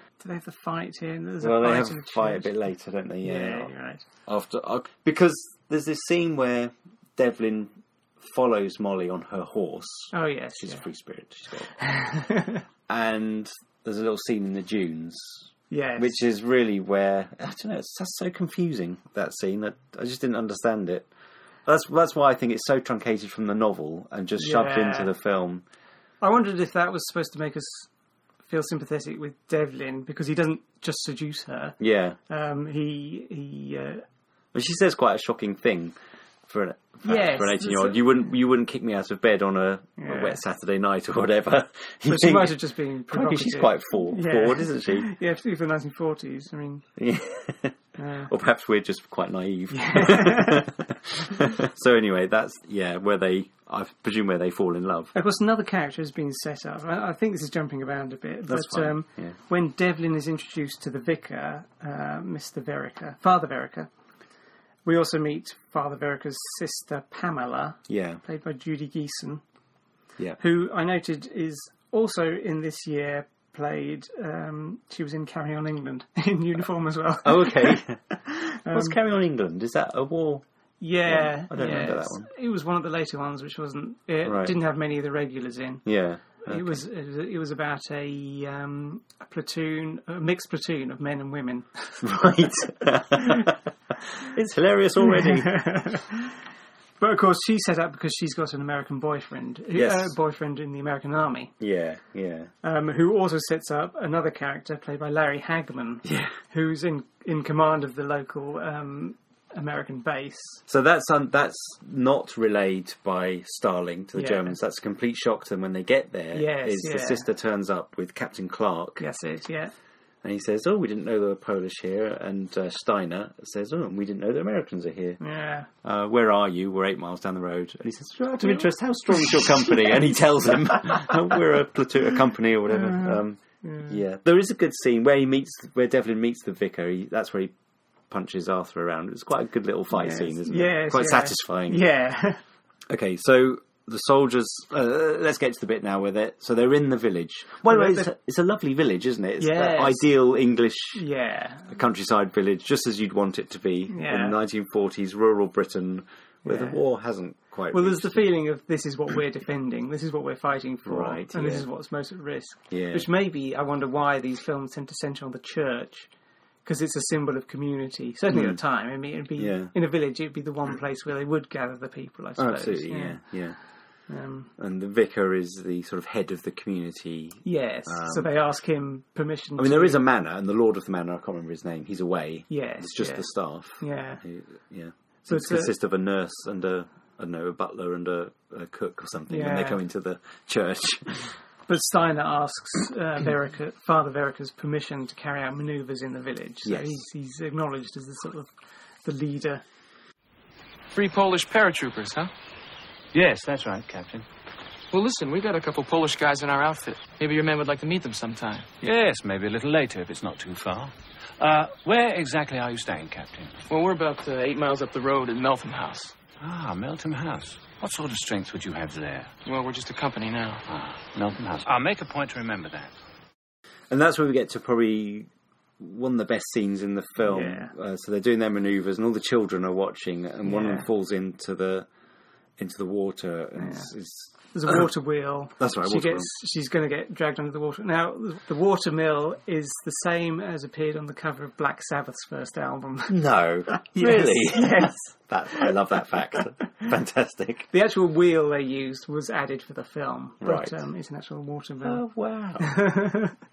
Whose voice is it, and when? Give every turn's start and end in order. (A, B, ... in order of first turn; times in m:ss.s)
0:00.2-0:02.5 A
0:01.4-0:03.7 B
0:03.2-0:04.0 A
0:04.3-0:11.8 B
0:10.1-0:10.8 A
0:11.8-0:12.6 A
0:12.9-0:21.1 B
0:15.7-0:16.2 A
0:21.7-0:25.6 B
0:24.4-0:25.1 A
0:26.2-0:27.9 A
0:28.5-0:34.0 A
0:31.8-0:32.2 B
0:34.5-0:36.0 B
0:36.5-0:45.1 B
0:37.0-0:38.0 A
0:40.0-0:40.4 A
0:42.1-0:46.8 A
0:47.0-0:55.2 B
0:48.0-0:48.3 A
0:49.7-0:50.7 A
0:55.1-1:03.9 A
0:58.5-0:59.4 B
1:04.8-1:09.4 A
1:07.9-1:08.2 B
1:10.4-1:19.0 A
1:17.2-1:20.4 B
1:20.8-1:25.8 A
1:21.1-1:22.3 B
1:24.2-1:24.6 B
1:25.8-1:26.8 B
1:26.4-1:32.1 A
1:32.0-1:33.6 B
1:33.2-1:33.5 A
1:34.2-1:35.6 B
1:35.0-1:36.4 A
1:37.0-1:41.5 A
1:39.7-1:40.1 B
1:41.6-1:42.5 B
1:42.6-1:50.6 A
1:46.0-1:46.4 B
1:50.7-1:59.0 B
1:54.2-1:54.6 A
1:56.3-1:57.3 A
1:59.0-1:59.7 A
2:00.2-2:05.2 B
2:05.2-2:05.7 A
2:05.8-2:17.5 B
2:09.2-2:09.9 A
2:12.7-2:14.0 A
2:18.1-2:21.8 B
2:19.9-2:22.4 A
2:22.9-2:31.0 B
2:27.7-2:28.1 A
2:29.4-2:30.1 A
2:31.0-2:31.7 A
2:31.7-2:38.2 B
2:33.9-2:34.4 A
2:36.4-2:36.8 A
2:37.7-2:46.1 A
2:40.9-2:41.7 B
2:42.7-2:43.1 B
2:46.6-2:53.2 A
2:48.3-2:48.6 B
2:49.4-2:49.7 B
2:52.4-2:53.6 B
2:54.1-2:54.5 A
2:54.6-2:58.3 B
2:57.4-3:00.0 A
2:59.6-3:11.3 B
3:02.5-3:03.3 A
3:03.8-3:04.2 A
3:05.3-3:05.7 A
3:09.3-3:09.8 A
3:11.7-3:18.5 A
3:16.6-3:17.0 B
3:19.0-3:19.6 A
3:20.9-3:22.3 C
3:23.1-3:24.2 D
3:24.9-3:28.8 C
3:28.8-3:33.6 D
3:33.7-3:36.2 C
3:36.4-3:39.3 D
3:39.5-3:40.6 C
3:40.7-3:42.9 D
3:43.9-3:51.9 B
3:47.2-3:47.7 A
3:50.4-3:50.9 A
3:52.6-3:54.9 B
3:53.6-3:53.9 A
3:54.5-4:05.7 A
3:55.6-3:56.3 B
4:03.1-4:07.7 B
4:07.7-4:12.0 A
4:10.4-4:10.8 B
4:11.8-4:12.8 B
4:12.6-4:13.4 A